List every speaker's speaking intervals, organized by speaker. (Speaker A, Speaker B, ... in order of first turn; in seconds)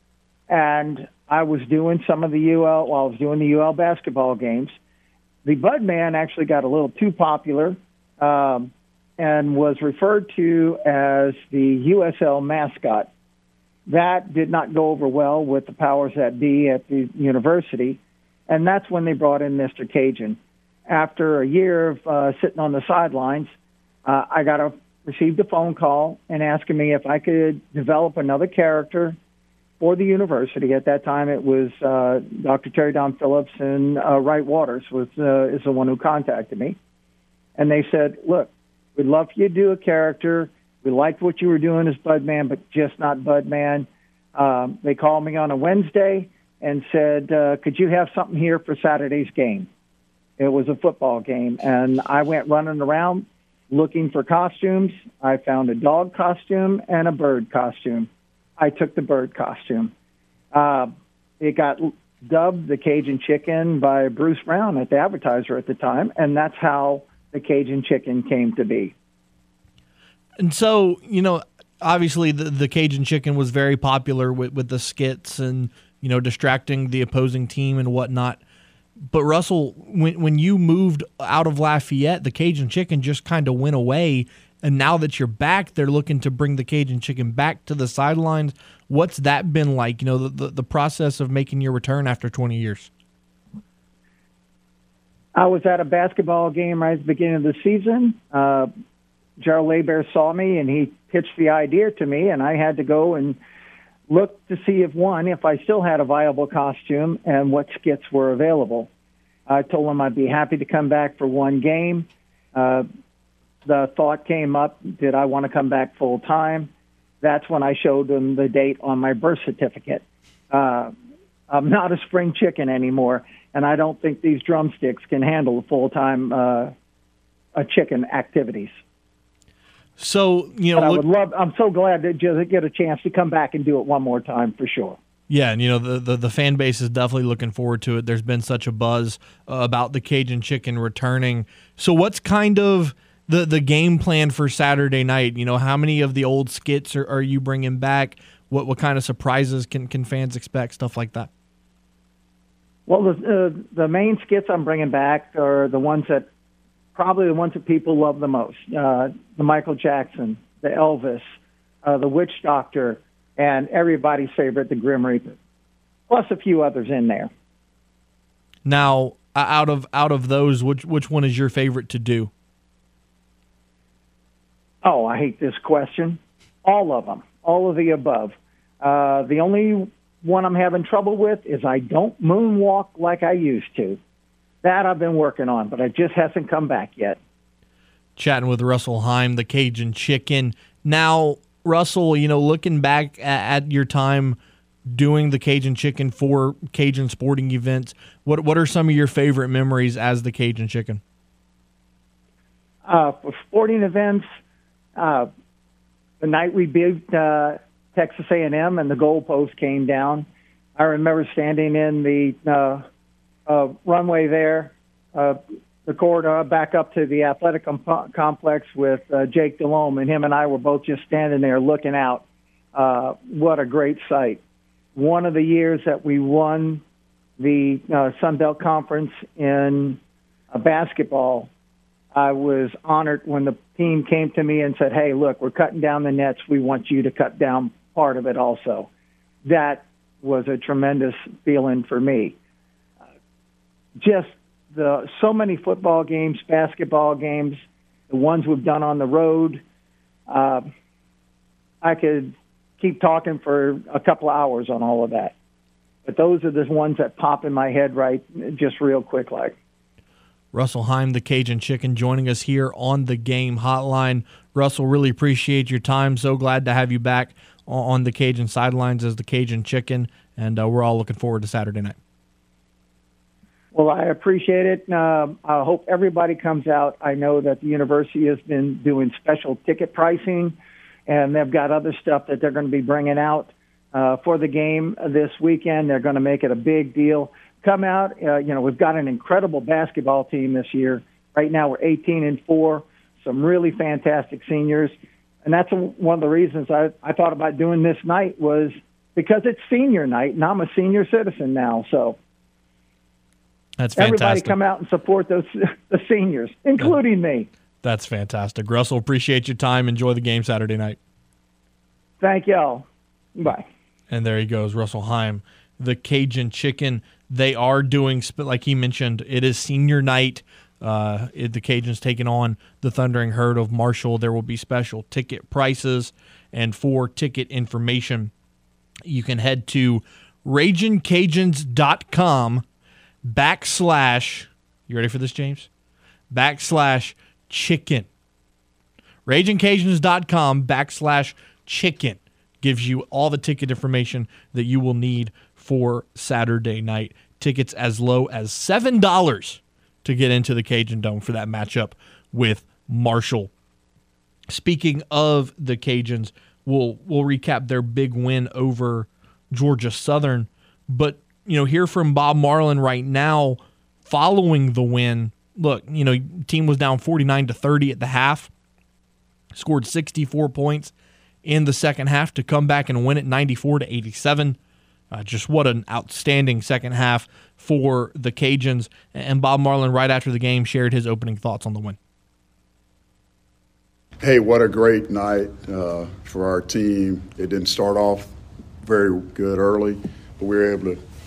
Speaker A: 0.5-4.8, 5.5-13.1, 13.9-23.5, 24.1-29.2, 29.8-36.8, 37.6-49.7, 50.4-59.9, 60.5-68.9, 95.4-98.7, 99.4-103.4, 104.1-108.9, 109.5-112.9, 113.7-120.9, 121.5-126.7, 127.6-128.8, 130.8-135.0, 152.9-156.3, 156.9-161.3, 161.8-165.4, 166.1-167.3, 174.8-184.0, 184.6-187.2, 202.9-204.3, 205.0-205.3, 206.2-212.8, 213.5-224.4, 224.9-226.8, 227.4-230.0, 230.5-231.5, 232.1-238.9, 239.4-242.4, 244.0-249.6, 250.3-250.7, 251.8-255.3, 256.1-259.6, 273.7-280.6, 281.1-302.2, 304.0-307.5, 312.2-312.9, 313.4-313.7
Speaker B: 70.4-78.4, 79.1-92.9, 130.0-131.0, 135.3-151.3, 168.7-172.3, 188.2-194.4, 194.9-201.0, 260.5-272.0, 303.8-304.6, 307.8-311.0, 314.1-328.3, 329.1-332.6, 333.2-335.7, 336.3-338.1, 339.3-353.5, 354.5-368.5, 369.5-370.9, 371.4-374.6, 375.1-382.0
Speaker C: 384.2-388.3, 388.8-391.0